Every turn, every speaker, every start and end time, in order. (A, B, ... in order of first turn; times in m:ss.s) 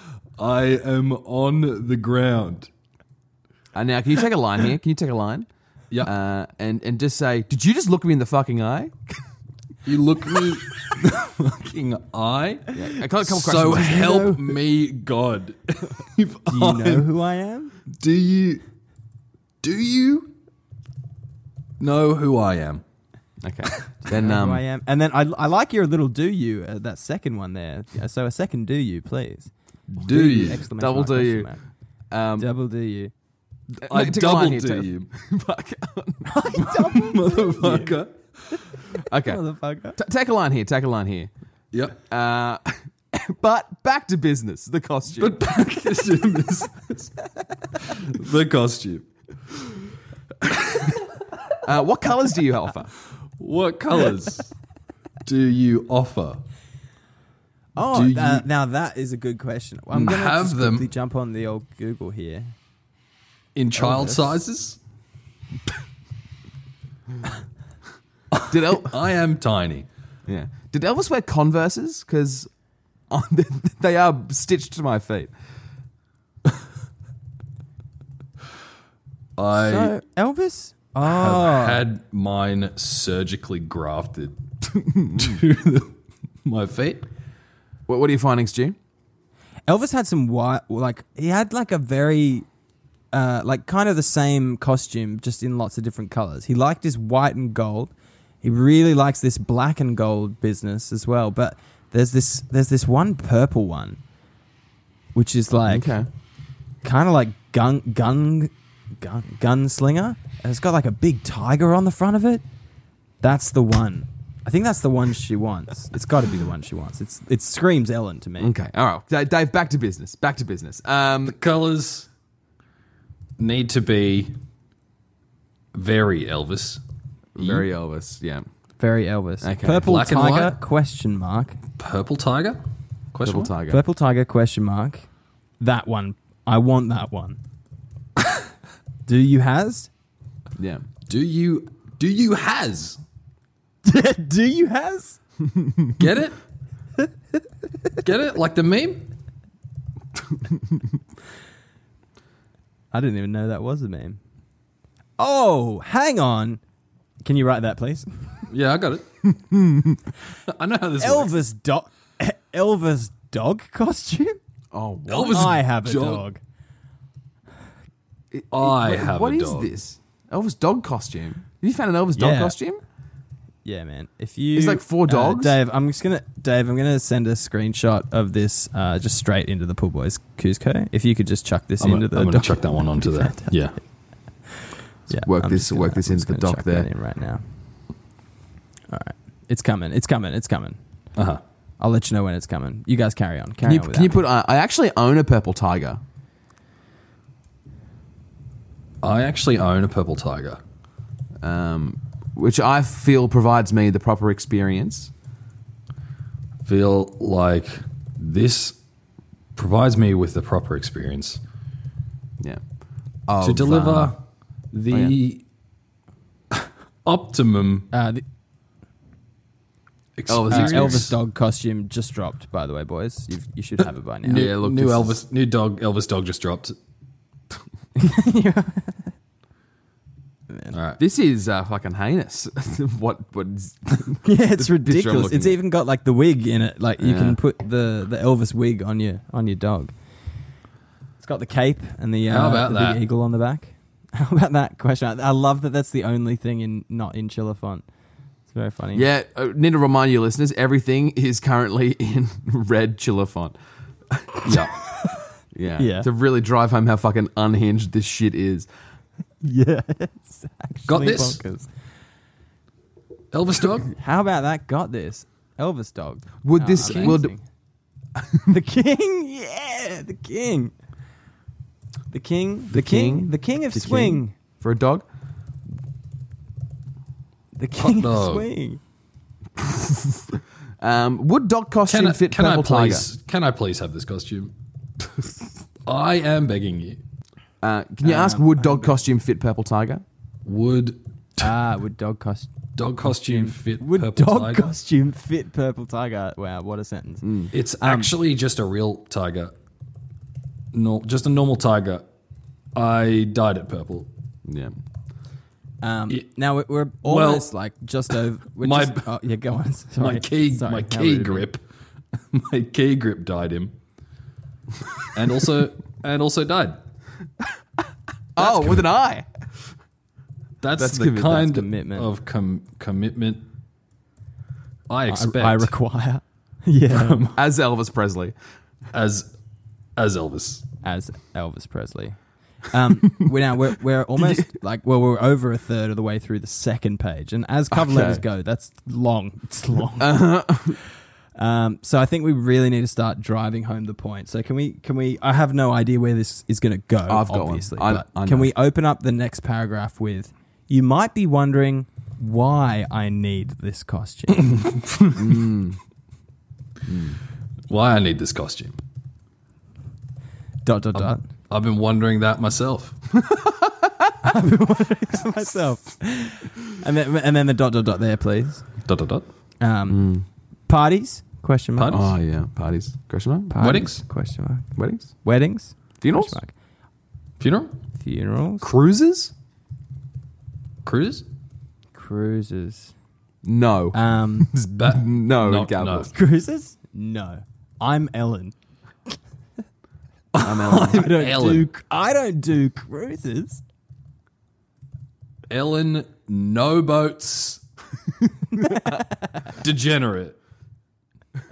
0:00.4-0:02.7 A
0:03.7-0:05.5 B
0:06.0-0:09.1 B
0:09.8-0:17.1 A
0:12.7-0:14.3 B
0:13.7-0:14.5 C
0:16.5-0:17.7 C
0:17.9-0:18.6 A
0:19.6-0:20.3 A
0:21.8-0:22.8 A
0:23.4-0:24.6 B
0:24.0-0:31.6 C
0:30.0-0:30.6 A
0:30.1-0:31.5 B
0:32.1-0:32.5 B
0:32.4-0:33.1 C
0:33.8-0:36.5 B
0:33.8-0:35.1 A
0:36.2-0:38.0 C
0:36.6-0:38.6 A
0:38.9-0:39.4 B
0:39.2-0:40.0 C
0:40.0-0:41.3 B
0:41.7-0:42.0 A
0:42.0-0:45.4 B
0:45.2-0:47.1 A
0:47.7-0:49.0 A
0:50.4-0:51.0 A
0:51.6-0:52.9 B
0:53.4-0:54.5 A
0:55.2-0:56.4 A
0:57.8-1:02.5 C
0:57.9-0:58.4 A
0:59.9-1:00.9 A
1:03.5-1:04.8 A
1:03.8-1:04.4 C
1:08.3-1:09.9 A
1:08.5-1:09.0 B
1:10.3-1:12.5 B
1:13.1-1:15.3 B
1:19.4-1:19.9 A
1:19.5-1:21.8 C
1:21.0-1:25.9 A
1:25.0-1:25.4 B
1:26.4-1:27.0 A
1:27.9-1:28.8 B
1:29.7-1:32.4 C
1:33.1-1:44.0 C
1:45.1-1:45.9 C
1:45.7-1:46.1 B
1:46.8-1:52.4 C
1:53.2-1:58.5 C
1:58.4-2:01.4 B
2:01.2-2:02.1 A
2:03.4-2:04.3 A
2:05.7-2:06.8 A
2:07.4-2:08.4 B
2:07.4-2:07.6 A
2:08.8-2:11.6 C
2:09.4-2:09.9 B
2:09.8-2:10.6 A
2:11.8-2:12.6 A
2:13.1-2:13.5 A
2:13.2-2:13.8 B
2:13.7-2:15.1 C
2:15.6-2:17.4 C
2:19.0-2:19.9 C
2:20.6-2:20.8 B
2:21.1-2:23.0 A
2:23.8-2:25.2 C
2:26.0-2:26.4 A
2:28.0-2:29.0 A
2:32.9-2:34.2 C
2:35.2-2:36.6 C
2:37.2-2:38.4 C
2:38.5-2:39.3 A
2:40.5-2:41.3 A
2:41.0-2:44.4 C
2:44.7-2:45.6 B
2:45.1-2:46.2 A
2:45.3-2:46.4 C
2:48.3-2:52.8 B
2:48.5-2:49.7 A
2:52.2-2:52.6 C
2:53.6-3:03.6 C
2:54.5-2:55.6 B
3:01.8-3:03.8 A
3:05.1-3:07.4 C
3:05.2-3:06.9 B
3:08.9-3:10.8 C
3:11.2-3:11.4 A
3:11.8-3:14.2 C
3:13.6-3:16.0 B
3:19.0-3:20.6 A
3:21.4-3:25.1 B
3:26.6-3:28.8 A
3:29.6-3:31.4 A
3:33.3-3:34.1 B
3:33.4-3:34.2 A
3:34.7-3:35.4 A
3:36.5-3:37.9 A
3:37.9-3:38.2 C
3:40.2-3:41.1 A
3:40.3-3:41.1 B
3:40.5-3:44.5 C
3:44.2-3:46.8 A
3:44.2-3:45.2 B
3:48.0-3:49.1 C
3:50.7-3:51.0 A
3:51.0-3:55.6 B
3:54.2-3:59.9 C
3:57.0-3:57.4 B
4:01.2-4:07.8 C
4:02.3-4:03.0 A
4:08.5-4:09.0 C
4:08.9-4:13.5 B
4:14.1-4:14.7 B
4:14.4-4:14.7 A
4:15.5-4:18.7 B
4:15.8-4:16.1 C
4:19.4-4:21.7 C
4:20.9-4:21.4 A
4:23.3-4:23.9 A
4:24.0-4:27.4 C
4:26.4-4:27.3 B
4:26.8-4:27.2 A
4:28.2-4:28.5 B
4:28.5-4:30.7 C
4:32.1-4:34.3 C
4:32.7-4:35.0 B
4:37.6-4:38.8 C
4:37.8-4:38.5 A
4:39.6-4:43.0 B
4:41.9-4:44.5 A
4:45.8-4:47.0 A
4:47.6-4:50.0 B
4:48.0-4:48.9 C
4:50.4-4:51.5 A
4:51.4-4:52.5 C
4:52.8-4:54.7 A
4:53.0-4:58.1 C
4:57.2-4:57.5 B
4:57.5-4:59.5 A
5:00.7-5:02.0 A
5:02.7-5:04.1 A
5:04.4-5:04.7 B
5:05.8-5:11.5 C
5:07.0-5:07.5 A
5:08.6-5:09.1 A
5:10.0-5:11.6 A
5:12.3-5:13.7 A
5:15.0-5:16.8 A
5:18.4-5:19.3 B
5:18.4-5:18.8 A
5:20.6-5:23.4 A
5:20.8-5:21.4 B
5:21.3-5:22.1 C
5:24.9-5:25.7 A
5:25.1-5:27.2 C
5:26.9-5:27.4 A
5:27.3-5:28.3 B
5:28.9-5:29.3 A
5:30.0-5:30.6 A
5:30.8-5:40.3 C
5:34.2-5:34.5 B
5:37.7-5:38.2 B
5:40.0-5:40.8 B
5:41.4-5:54.7 C
5:47.1-5:48.5 B
5:54.5-5:55.2 A
5:55.1-5:55.8 B
5:56.9-5:57.2 B
5:57.7-5:58.8 A
6:00.6-6:01.2 C
6:00.9-6:03.0 A
6:03.2-6:04.1 B
6:04.2-6:08.6 C
6:08.8-6:09.2 A
6:09.6-6:10.1 C
6:09.9-6:10.2 B
6:10.7-6:12.0 C
6:11.8-6:12.1 A
6:11.9-6:13.5 B
6:13.5-6:14.7 C
6:13.6-6:14.0 A
6:14.8-6:15.1 B
6:15.2-6:16.5 C
6:16.0-6:16.4 B
6:17.4-6:17.7 A
6:18.0-6:18.7 C
6:18.6-6:19.3 B
6:20.8-6:21.2 A
6:21.9-6:22.9 C
6:23.4-6:26.1 B
6:23.9-6:24.5 C
6:24.8-6:26.1 A
6:26.1-6:28.5 C
6:30.3-6:31.7 A
6:30.4-6:31.1 B
6:30.7-6:33.6 C
6:35.5-6:37.6 A
6:38.6-6:39.0 C
6:38.7-6:39.0 B
6:39.4-6:40.4 A